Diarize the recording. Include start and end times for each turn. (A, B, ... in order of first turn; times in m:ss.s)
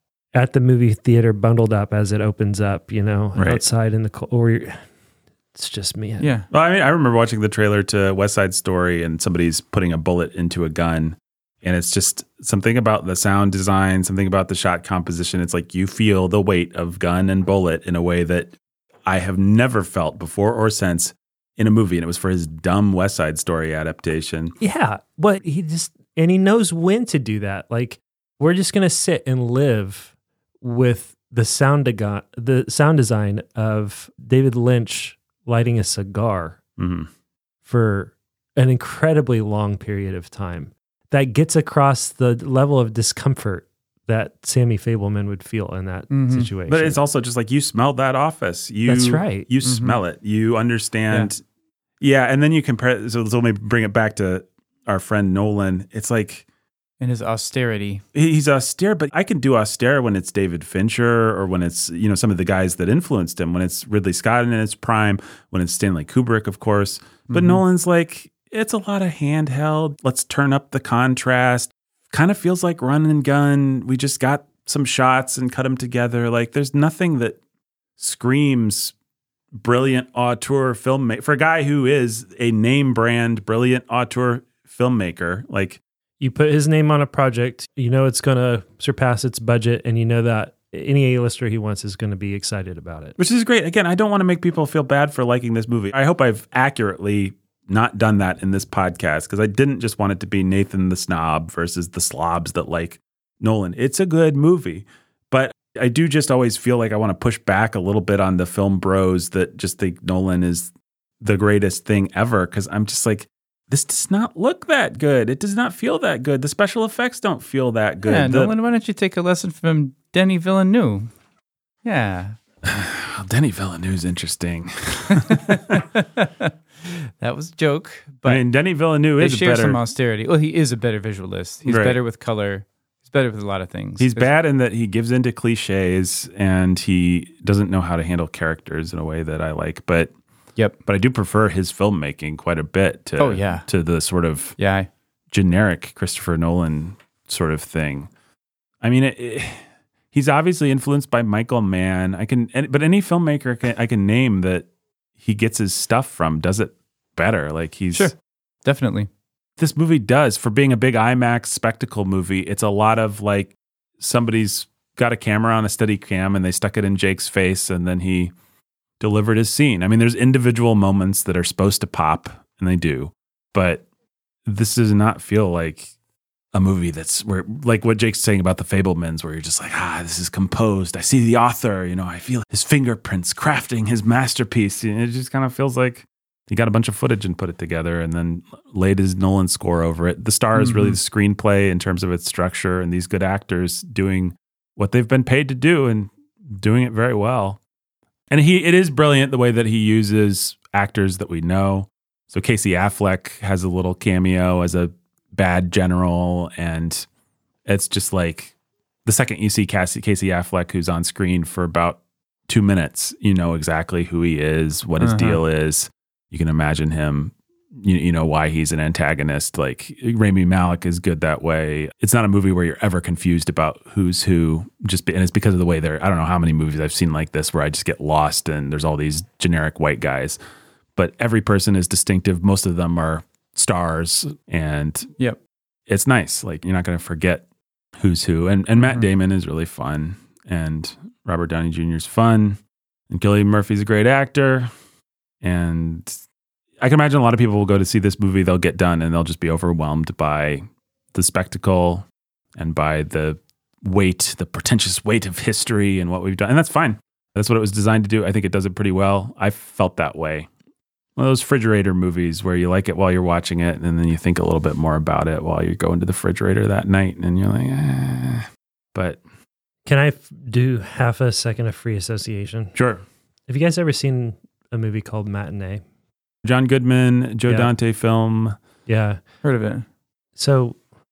0:00.3-0:04.8 A
0:03.4-0:03.6 B
0:05.6-0:06.3 A
0:06.2-0:06.5 C
0:06.5-0:18.5 B
0:19.1-0:24.5 B
0:24.6-0:36.6 A
0:36.8-0:37.1 B
0:37.7-0:47.0 A
0:46.1-0:46.5 C
0:46.7-0:51.4 B
0:48.9-0:49.5 A
0:49.6-0:50.0 C
0:52.0-0:56.4 B
0:57.0-0:58.0 C
0:58.1-1:17.4 B
1:07.3-1:07.6 C
1:18.0-1:18.9 B
1:19.6-1:25.8 B
1:26.2-1:33.2 A
1:33.2-1:58.5 B
1:58.0-2:01.1 C
2:01.8-2:02.4 C
2:02.6-2:05.8 B
2:05.3-2:08.4 C
2:08.2-2:09.8 B
2:09.2-2:14.3 C
2:11.6-2:12.0 B
2:14.0-2:20.1 B
2:20.8-2:24.6 B
2:23.2-2:23.7 C
2:24.6-2:24.9 C
2:25.3-2:28.1 B
2:28.8-2:34.7 B
2:35.2-2:38.1 B
2:37.9-2:39.1 C
2:39.6-2:48.3 B
2:49.0-2:53.8 B
2:54.5-2:55.9 B
2:56.5-3:17.6 B
3:10.6-3:11.0 C
3:18.3-3:27.1 B
3:27.7-3:28.5 B
3:29.0-3:50.4 B
3:35.0-3:35.4 C
3:51.0-3:55.1 B
3:55.9-3:57.4 B
3:58.0-4:02.6 B
3:58.8-3:59.1 C
4:03.1-4:04.7 B
4:05.4-4:06.1 B
4:06.8-4:10.6 B
4:11.1-4:20.5 B
4:21.2-4:29.2 B
4:29.9-4:32.8 A
4:32.8-4:33.0 B
4:33.5-4:35.8 A
4:36.4-4:38.6 B
4:38.9-4:39.2 A
4:39.4-4:39.8 C
4:40.4-4:40.8 A